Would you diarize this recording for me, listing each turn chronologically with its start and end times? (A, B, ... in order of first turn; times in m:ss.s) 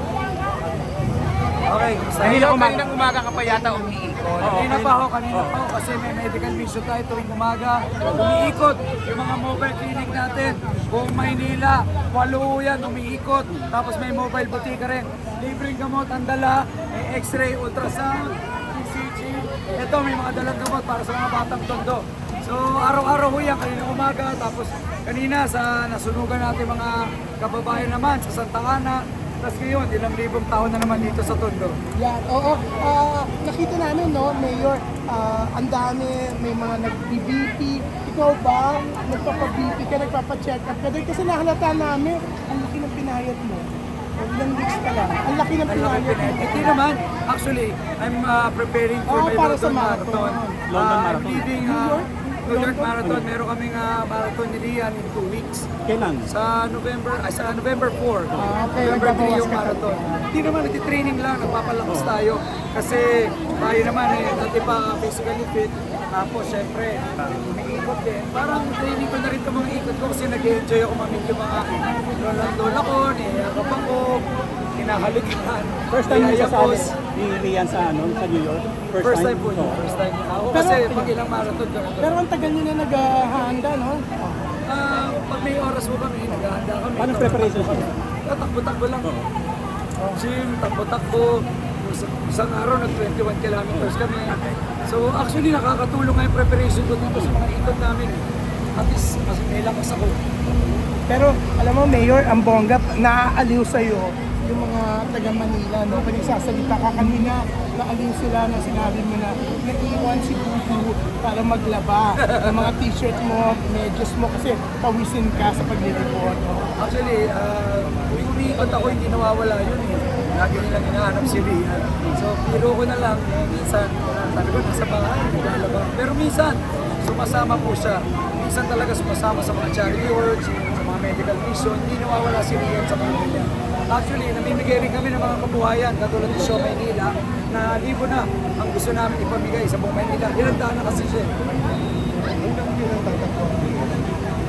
0:01.7-0:02.8 A
0:02.2-0:04.6 B
0:02.3-0:02.9 C
0:04.4-0:05.5 C
0:04.4-0:31.8 A
0:32.0-0:46.8 D
0:45.7-0:55.7 A
0:49.1-0:50.6 D
0:50.7-0:51.6 C
0:51.6-0:52.9 D
0:53.0-0:53.3 C
0:55.9-0:56.3 C
0:56.3-1:14.2 A
0:58.4-1:00.3 D
1:01.9-1:02.1 C
1:14.8-1:17.0 A
1:15.9-1:19.8 C
1:19.0-1:22.2 A
1:20.5-1:21.1 D
1:22.0-1:24.6 D
1:24.7-1:29.1 A
1:27.0-1:27.9 C
1:30.1-1:38.2 A
1:38.8-1:40.2 A
1:41.1-1:56.7 D
1:56.8-2:21.3 A
2:22.5-2:24.0 B